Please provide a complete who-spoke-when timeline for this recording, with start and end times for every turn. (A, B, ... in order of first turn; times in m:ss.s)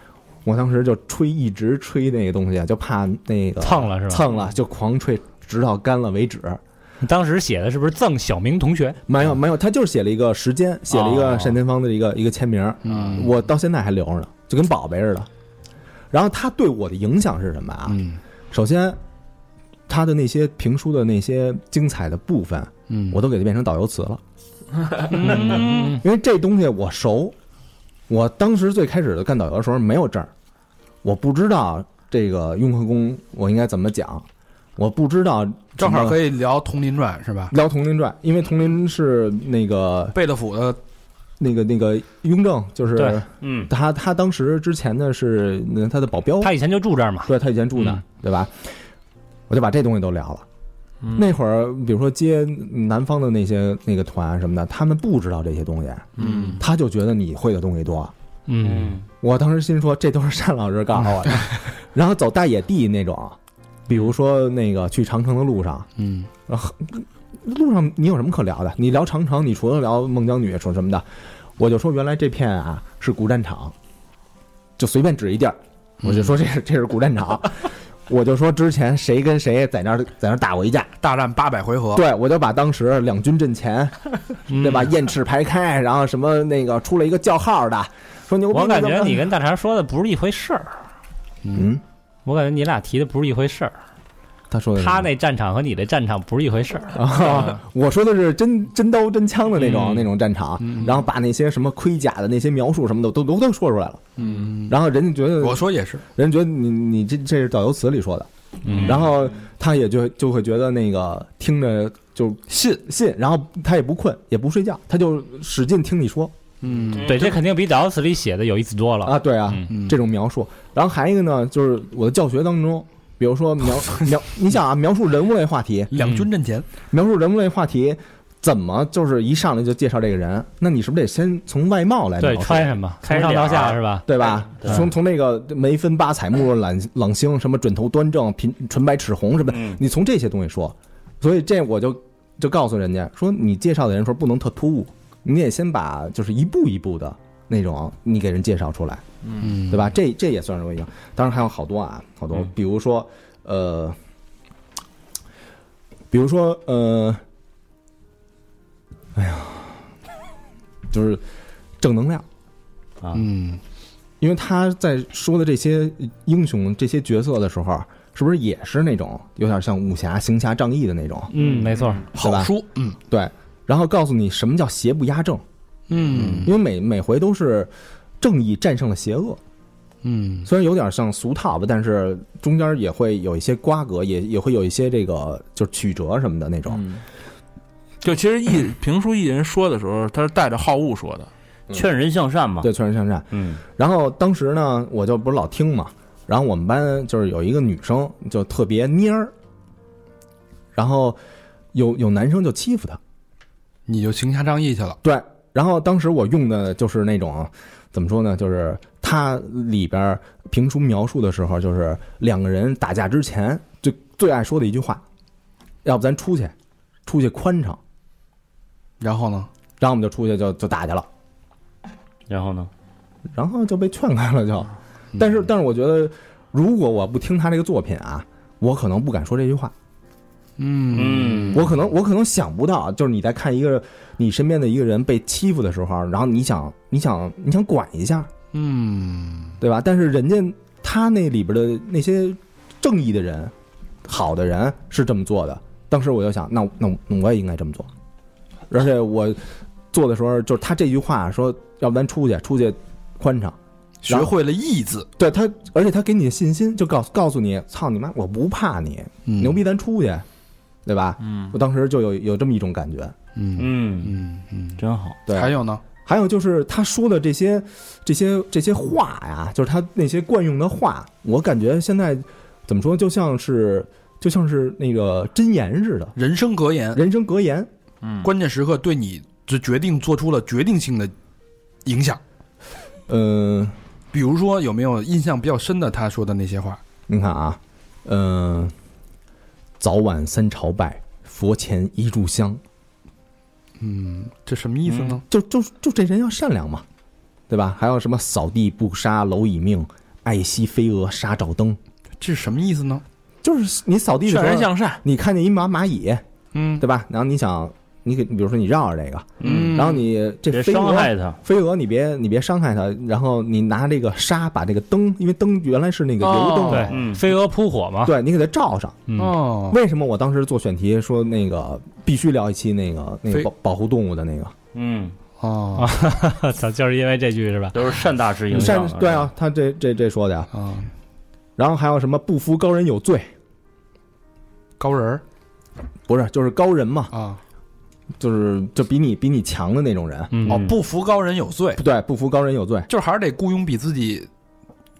0:00.4-0:06.6 A
0:03.6-0:04.3 B
0:07.0-0:09.0 B
0:09.1-0:15.3 A
0:10.9-0:11.6 B
0:12.8-0:13.4 C
0:16.1-0:19.0 A
0:17.9-0:18.2 C
0:19.9-0:24.2 A
0:22.9-0:23.2 C
0:25.1-0:26.0 B
0:25.1-0:27.4 A
0:25.1-0:26.0 C
0:28.1-0:30.3 A
0:31.0-0:34.3 A
0:34.8-0:36.2 A
0:35.8-0:37.5 C
0:37.5-0:40.2 A
0:40.1-0:40.8 C
0:41.4-0:46.6 A
0:43.0-0:43.2 B
0:43.4-0:43.7 D
0:46.4-0:47.3 B
0:47.3-0:48.5 A
0:49.5-0:50.4 A
0:51.1-0:58.1 A
0:56.2-0:56.6 E
0:56.2-0:56.6 C
0:58.5-0:59.0 B
0:58.6-0:59.1 D
0:59.2-1:03.4 A
1:03.9-1:05.9 A
1:06.0-1:06.3 C
1:06.5-1:11.1 A
1:11.6-1:13.7 A
1:14.8-1:20.9 A
1:16.0-1:16.3 C
1:21.0-1:22.0 C
1:21.9-1:29.3 A
1:24.5-1:24.9 B
1:28.5-1:30.8 B
1:31.4-1:31.7 C
1:31.5-1:31.8 A
1:32.3-1:33.8 B
1:34.5-1:35.1 A
1:34.8-1:37.3 B
1:36.9-1:44.0 A
1:39.6-1:40.1 C
1:40.6-1:41.0 C
1:44.2-1:44.8 C
1:44.6-1:56.3 A
1:45.4-1:46.0 C
1:48.7-1:49.1 D
1:52.5-1:52.8 C
1:56.6-1:57.4 C
1:56.9-1:57.4 D
1:57.0-1:59.7 B
1:59.0-2:05.9 A
1:59.7-2:00.0 C
2:05.9-2:06.7 C
2:06.0-2:06.3 B
2:06.9-2:12.8 A
2:12.2-2:14.1 B
2:13.0-2:14.0 D
2:14.1-2:29.0 A
2:14.6-2:14.8 D
2:19.5-2:19.8 D
2:29.2-2:29.5 E
2:29.4-2:29.9 C
2:29.6-2:34.0 A
2:36.1-2:37.2 A
2:39.2-2:39.8 A
2:40.9-2:41.2 A
2:41.8-2:42.2 A
2:43.1-2:43.6 C
2:44.2-2:51.3 A
2:51.3-2:52.1 B
2:51.4-2:53.0 C
2:52.2-2:52.5 A
2:53.1-2:55.4 A
2:55.9-2:56.5 C
2:56.1-2:56.5 D
2:56.4-2:59.4 A
3:00.0-3:00.5 C
3:00.4-3:06.8 A
3:06.7-3:07.0 E
3:08.0-3:11.3 E
3:11.7-3:12.7 D
3:12.6-3:19.3 A
3:13.3-3:13.6 D
3:20.8-3:21.2 A
3:21.7-3:23.0 A
3:23.9-3:25.0 C
3:25.0-3:35.0 A
3:35.8-3:36.5 A
3:37.1-3:37.8 A
3:39.0-3:39.5 C
3:39.8-3:41.1 A
3:42.3-3:42.7 D
3:43.3-3:49.7 A
3:45.1-3:45.4 C
3:50.6-3:51.6 C
3:50.9-3:51.7 D
3:51.5-3:58.3 A
3:58.5-3:59.6 C
3:59.6-4:03.5 A
4:04.0-4:07.9 A
4:08.7-4:13.6 A
4:14.0-4:15.1 C
4:14.1-4:14.4 A
4:15.2-4:20.2 A
4:19.3-4:19.6 C
4:20.9-4:23.2 A
4:21.2-4:21.6 E
4:23.4-4:25.8 C
4:23.6-4:24.2 D
4:24.8-4:25.2 D
4:25.3-4:36.2 A
4:36.2-4:37.0 C
4:36.9-4:37.7 A
4:38.0-4:38.3 E
4:38.2-4:41.1 C
4:41.8-4:42.2 C
4:43.1-4:43.8 A
4:44.1-4:46.8 C
4:47.1-4:48.7 A
4:49.8-4:52.6 A
4:53.8-4:55.2 C
4:54.9-4:55.2 D
4:55.3-4:56.8 A
4:57.5-5:01.8 A
5:02.2-5:03.0 C
5:03.4-5:06.2 A
5:04.3-5:05.0 E
5:06.5-5:06.8 C
5:06.8-5:17.0 A
5:09.4-5:09.9 D
5:09.4-5:10.1 C
5:10.5-5:11.4 D
5:16.4-5:16.8 C
5:16.7-5:18.2 B
5:16.9-5:17.2 D
5:18.0-5:19.1 A
5:19.1-5:19.4 B
5:19.2-5:19.8 C
5:19.7-5:24.6 A
5:24.7-5:25.1 D
5:25.4-5:25.9 C
5:25.8-5:28.0 B
5:27.7-5:29.3 D
5:28.5-5:30.5 A
5:30.5-5:30.9 C
5:31.6-5:33.3 A
5:34.8-5:35.2 C
5:36.1-5:37.1 A
5:37.1-5:37.4 C
5:38.2-5:40.4 A
5:40.3-5:40.7 B
5:40.5-5:40.8 D
5:40.5-5:41.8 C
5:41.8-5:42.9 A
5:42.9-5:44.3 C